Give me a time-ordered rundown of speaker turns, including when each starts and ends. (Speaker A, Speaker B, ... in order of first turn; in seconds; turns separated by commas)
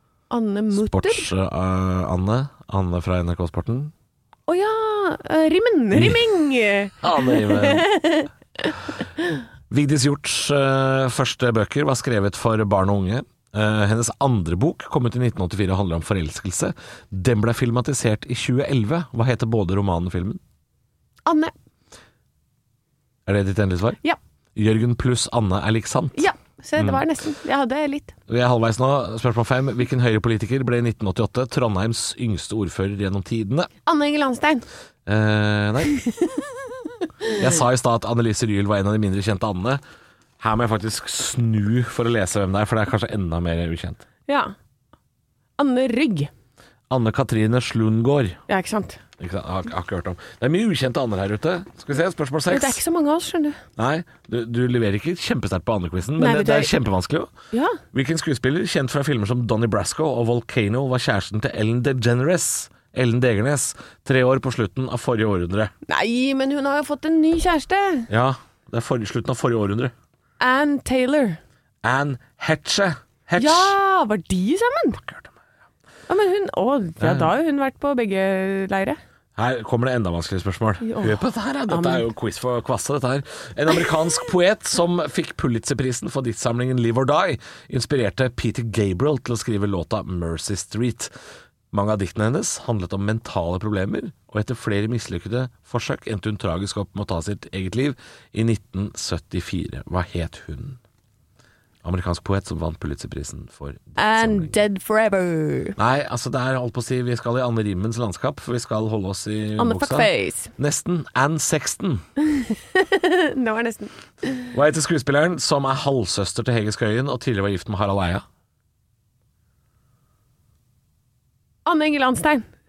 Speaker A: 0.3-1.3, Speaker B: 0.7-3.9, Speaker A: 4.5-8.3, Speaker B: 7.0-7.9, Speaker B: 9.7-20.4, Speaker A: 21.2-21.5, Speaker B: 23.2-24.0, Speaker B: 24.6-27.0, Speaker A: 26.1-28.1, Speaker B: 28.3-33.7, Speaker A: 33.9-34.7, Speaker B: 35.0-35.9, Speaker A: 36.0-36.5, Speaker B: 37.4-39.8, Speaker B: 40.4-44.0, Speaker A: 44.3-44.5, Speaker A: 45.6-46.3, Speaker B: 46.9-48.4, Speaker A: 48.5-49.0, Speaker B: 49.2-52.8, Speaker A: 52.5-53.6, Speaker B: 53.8-57.3, Speaker A: 56.2-56.7, Speaker A: 57.5-57.8, Speaker B: 57.9-65.7, Speaker A: 65.9-68.1, Speaker B: 68.1-69.9, Speaker A: 70.4-71.4, Speaker B: 71.8-73.7, Speaker A: 73.4-75.0, Speaker B: 75.0-75.3, Speaker A: 76.1-79.0, Speaker B: 77.0-77.3, Speaker B: 79.4-91.1, Speaker A: 80.8-82.0, Speaker B: 91.7-100.8, Speaker B: 101.8-104.5, Speaker A: 104.0-105.8, Speaker B: 105.8-112.0, Speaker A: 109.6-110.5, Speaker A: 112.2-114.5, Speaker B: 114.5-118.2, Speaker A: 121.6-122.5